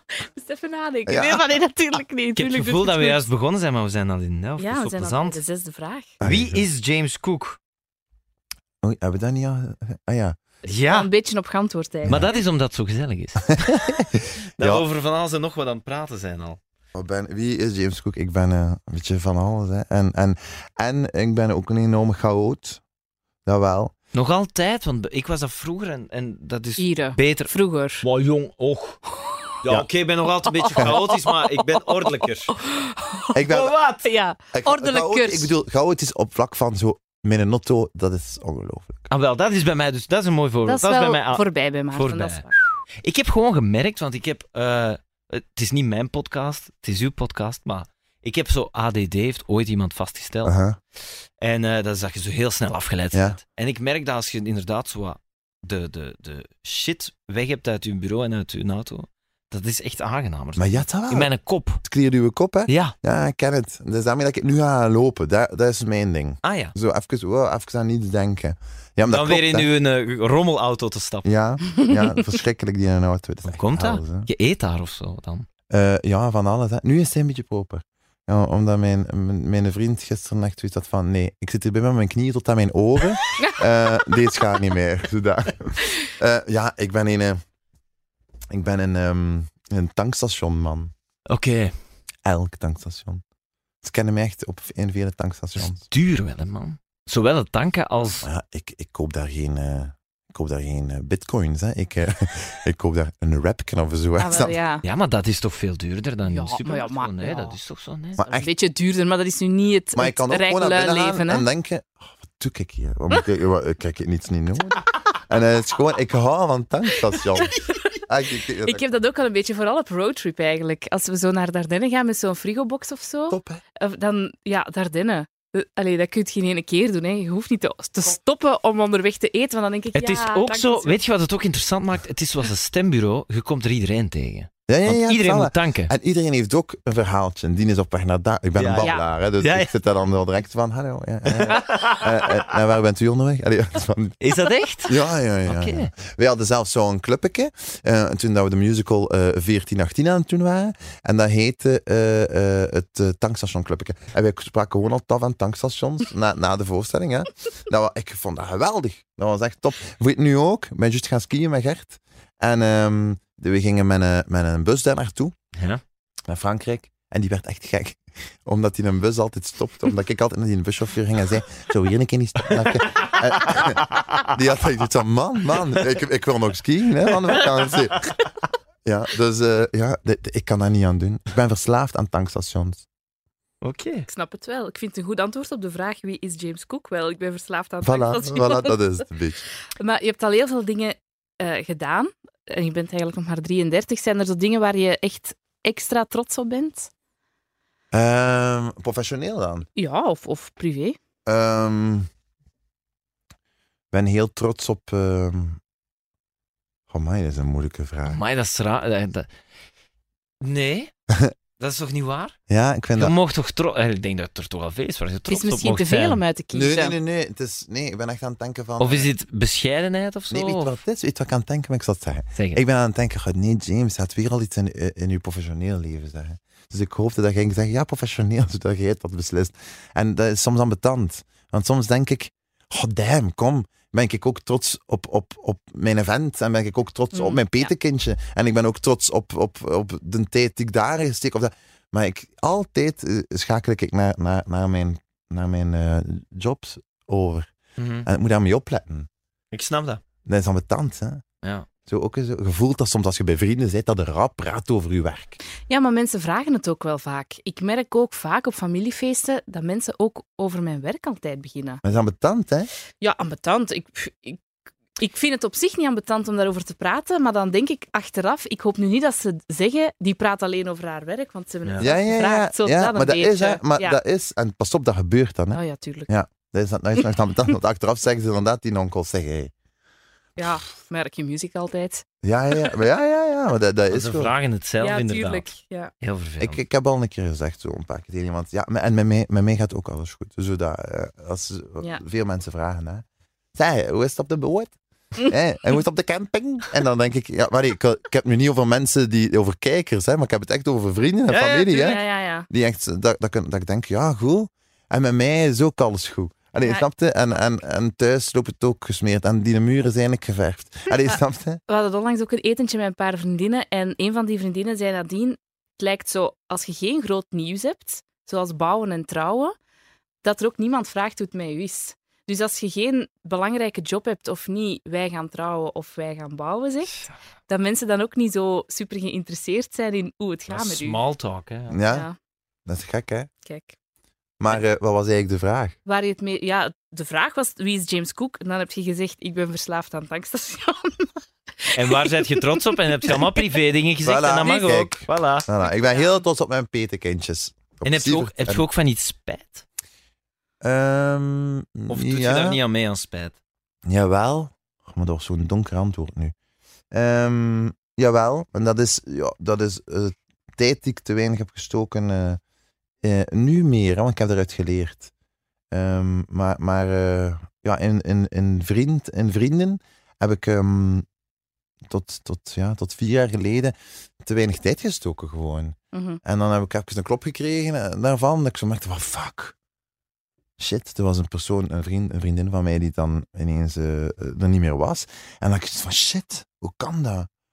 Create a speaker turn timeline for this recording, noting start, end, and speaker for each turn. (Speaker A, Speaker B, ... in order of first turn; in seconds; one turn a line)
Speaker A: 0.2-3.2
Speaker B: 1.1-1.4
Speaker C: 2.4-5.4
Speaker A: 4.6-6.1
Speaker B: 6.2-6.7
Speaker C: 6.2-7.6
Speaker B: 8.8-10.4
Speaker C: 10.6-11.1
Speaker A: 10.9-12.2
Speaker C: 12.1-13.9
Speaker B: 13.5-14.8
Speaker C: 14.6-16.6
Speaker B: 16.9-22.8
Speaker B: 23.4-23.9
Speaker C: 24.1-29.0
Speaker A: 26.8-28.0
Speaker C: 29.6-32.6
Speaker A: 30.4-33.4
Speaker B: 33.3-33.8
Speaker C: 33.5-34.1
Speaker A: 34.0-35.5
Speaker B: 34.5-39.1
Speaker C: 39.1-42.5
Speaker A: 40.7-42.5
Speaker C: 43.0-50.5
Speaker B: 50.4-50.8
Speaker C: 51.4-61.8
Speaker B: 53.1-53.4
Speaker B: 60.5-61.3
Speaker B: 61.8-69.7
Speaker C: 62.7-62.9
Speaker C: 66.4-66.7
Speaker C: 69.0-71.3
Speaker B: 71.2-74.3
Speaker C: 73.4-75.5
Speaker B: 75.7-87.4
Speaker B: 88.5-90.9
Speaker C: 91.3-91.7
Speaker B: 92.2-93.2
Speaker B: 93.8-95.8
Speaker C: 95.6-98.2
Speaker B: 98.2-104.6
Speaker A: 104.2-104.8
Speaker C: 104.8-108.2
Speaker A: 106.3-107.6
Speaker B: 108.2-108.5
Speaker A: 108.2-111.4
Speaker B: 109.9-118.8
Speaker A: 118.7-131.0
Speaker B: 123.3-123.6
Speaker C: 129.9-135.9
Speaker B: 134.7-144.2
Speaker C: 138.6-139.7
Speaker C: 141.2-142.4
Speaker C: 144.2-145.9
Speaker B: 144.9-165.3
Speaker C: 165.6-165.8
Speaker B: 166.3-178.1
Speaker C: 172.6-174.2
Speaker C: 177.3-178.0
Speaker B: 178.8-182.8
Speaker C: 183.6-184.1
Speaker A: 184.1-188.7
Speaker B: 187.8-189.4
Speaker A: 189.8-196.9
Speaker B: 197.9-199.7
Speaker A: 199.8-201.0
Speaker B: 201.2-202.1
Speaker B: 203.9-205.6
Speaker B: 206.9-208.2
Speaker C: 208.1-209.3
Speaker C: 210.4-210.9
Speaker C: 211.6-212.3
Speaker B: 212.5-213.1
Speaker C: 212.9-216.2
Speaker A: 215.3-216.9
Speaker B: 216.5-219.1
Speaker C: 218.8-220.8
Speaker B: 220.3-247.5
Speaker C: 222.3-222.6
Speaker A: 237.1-237.7
Speaker C: 247.8-248.1
Speaker B: 248.0-249.1
Speaker C: 249.5-250.0
Speaker B: 250.2-251.2
Speaker B: 251.9-255.4
Speaker A: 255.7-261.8
Speaker B: 261.8-262.7
Speaker A: 263.0-264.4
Speaker A: 265.0-274.0
Speaker B: 271.8-279.5
Speaker A: 275.5-276.1
Speaker A: 280.4-282.0
Speaker B: 282.2-284.3
Speaker C: 283.9-286.6
Speaker A: 284.8-285.9
Speaker B: 286.4-311.6
Speaker C: 301.3-302.0
Speaker A: 301.7-302.5
Speaker A: 311.7-319.5
Speaker A: 320.2-331.0
Speaker C: 330.5-331.8
Speaker B: 331.7-332.1
Speaker A: 331.9-332.1
Speaker B: 332.6-333.3
Speaker A: 333.4-333.7
Speaker B: 334.4-335.8
Speaker A: 335.9-341.1
Speaker A: 341.7-342.2
Speaker C: 341.7-345.5
Speaker A: 343.1-343.4
Speaker B: 344.0-348.6
Speaker A: 345.6-346.2
Speaker C: 347.8-349.6
Speaker B: 350.6-352.6
Speaker C: 351.9-353.3
Speaker B: 353.9-356.3
Speaker B: 356.9-362.4
Speaker B: 363.0-365.1
Speaker B: 365.7-371.0
Speaker B: 371.9-379.5
Speaker A: 375.9-376.2
Speaker B: 380.6-387.3